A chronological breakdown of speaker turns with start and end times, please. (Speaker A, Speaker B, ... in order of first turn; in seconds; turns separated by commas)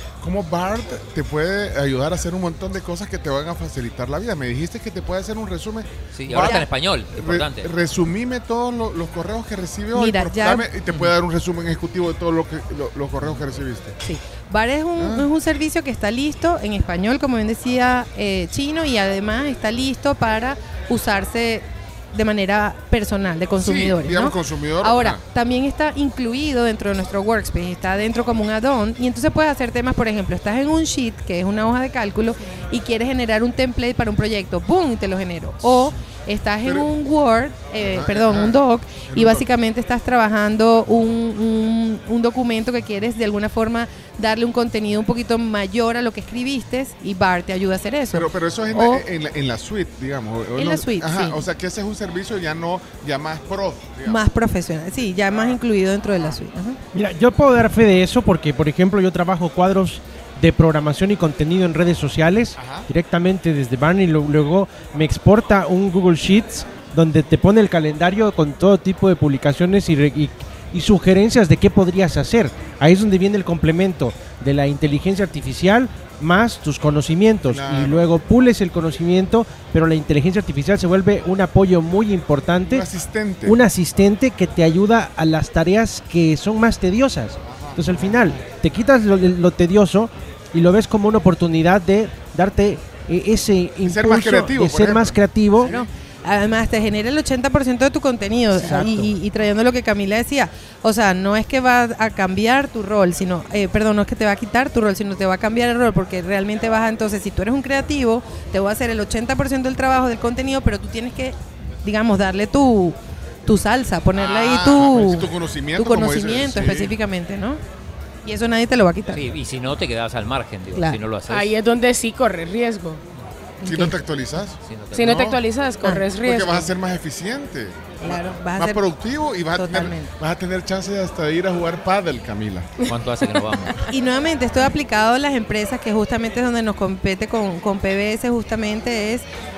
Speaker A: 0.2-14.0, Speaker B: 6.1-7.7, Speaker C: 6.3-6.7, Speaker C: 9.9-10.7, Speaker C: 14.0-49.0, Speaker A: 15.0-15.3, Speaker A: 23.6-25.2, Speaker A: 36.6-36.9, Speaker A: 37.8-39.5, Speaker A: 48.1-54.2, Speaker C: 50.6-51.4, Speaker C: 54.1-56.8, Speaker D: 56.9-82.9, Speaker A: 62.6-62.9, Speaker A: 77.5-78.1, Speaker A: 82.7-83.6, Speaker D: 83.5-95.7, Speaker A: 87.4-88.4, Speaker A: 93.8-95.9, Speaker C: 95.7-117.6, Speaker D: 98.5-99.1, Speaker A: 114.1-117.0, Speaker C: 118.2-119.2, Speaker B: 119.1-121.5, Speaker E: 121.3-123.0, Speaker C: 123.6-124.0, Speaker A: 123.6-125.4, Speaker B: 124.6-125.4, Speaker E: 124.9-126.7, Speaker A: 126.2-132.7, Speaker C: 128.0-128.8, Speaker C: 129.5-130.1, Speaker B: 132.9-133.8, Speaker C: 133.9-139.2